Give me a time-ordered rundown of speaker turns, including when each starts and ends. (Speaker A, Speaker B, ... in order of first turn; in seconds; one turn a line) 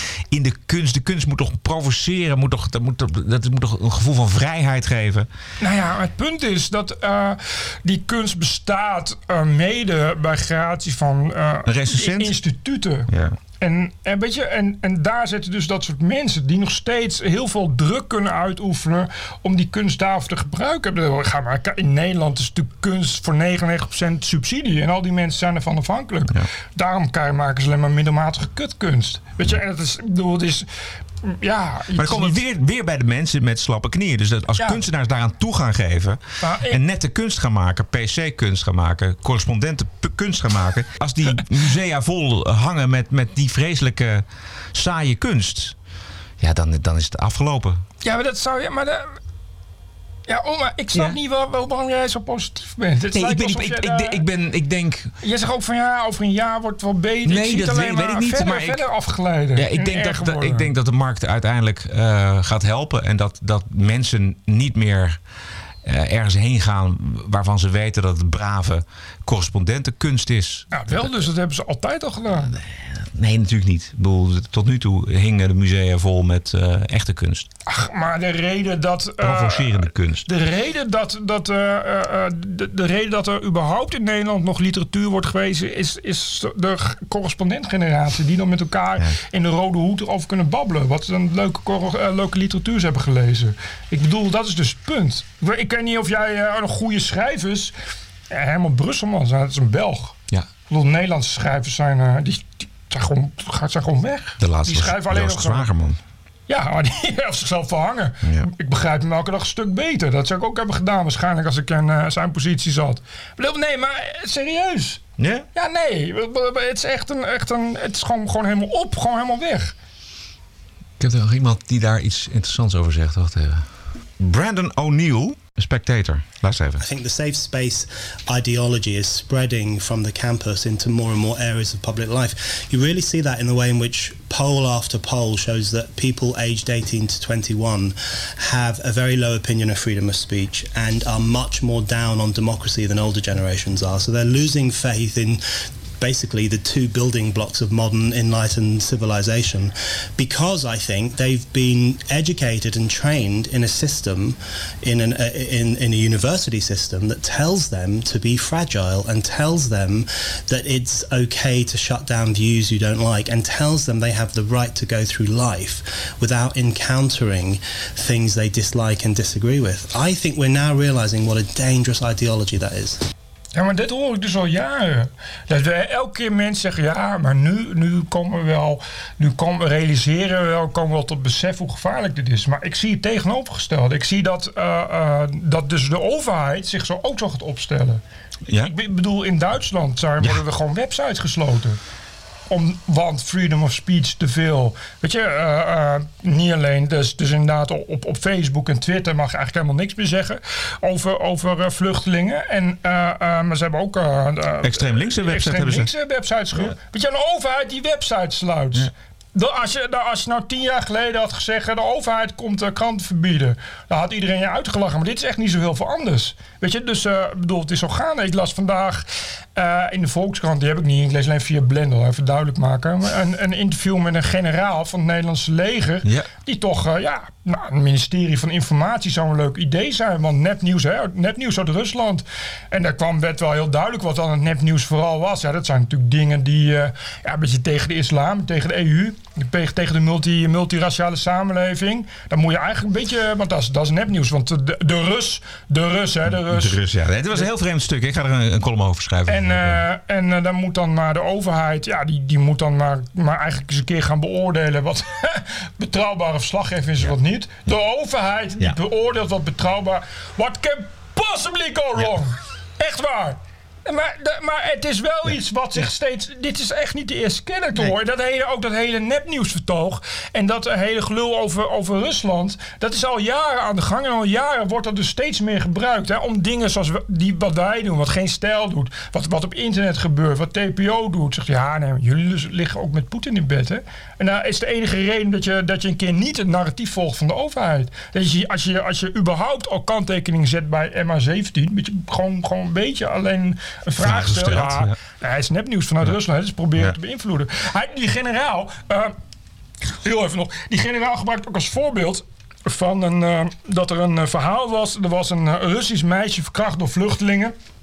Speaker A: 0.3-5.3
Speaker B: 5.6-13.1
Speaker A: 11.7-12.3
Speaker A: 13.1-13.4
Speaker B: 13.6-30.6
Speaker B: 31.2-32.4
Speaker A: 31.9-45.7
Speaker B: 36.4-36.8
Speaker A: 46.4-47.8
Speaker B: 48.0-49.1
Speaker B: 50.3-54.2
Speaker A: 53.1-55.1
Speaker B: 55.2-60.7
Speaker A: 57.2-58.8
Speaker A: 59.5-65.2
Speaker A: 65.8-71.2
Speaker B: 70.7-72.5
Speaker A: 72.5-77.5
Speaker B: 77.7-97.7
Speaker A: 79.2-80.2
Speaker B: 98.3-100.1
Speaker B: 100.7-105.7
Speaker A: 104.4-106.0
Speaker B: 106.5-115.0
Speaker A: 108.2-108.5
Speaker A: 115.2-115.5
Speaker B: 115.5-119.7
Speaker A: 121.0-123.7
Speaker A: 124.2-126.8
Speaker C: 126.8-145.4
Speaker C: 146.0-173.0
Speaker B: 173.5-188.0
Speaker B: 188.6-191.8
Speaker B: 192.5-246.8
Speaker A: 204.6-205.9
Speaker A: 246.4-249.8
Speaker B: 249.3-299.1
Speaker A: 294.0-294.9
Speaker B: 300.0-307.5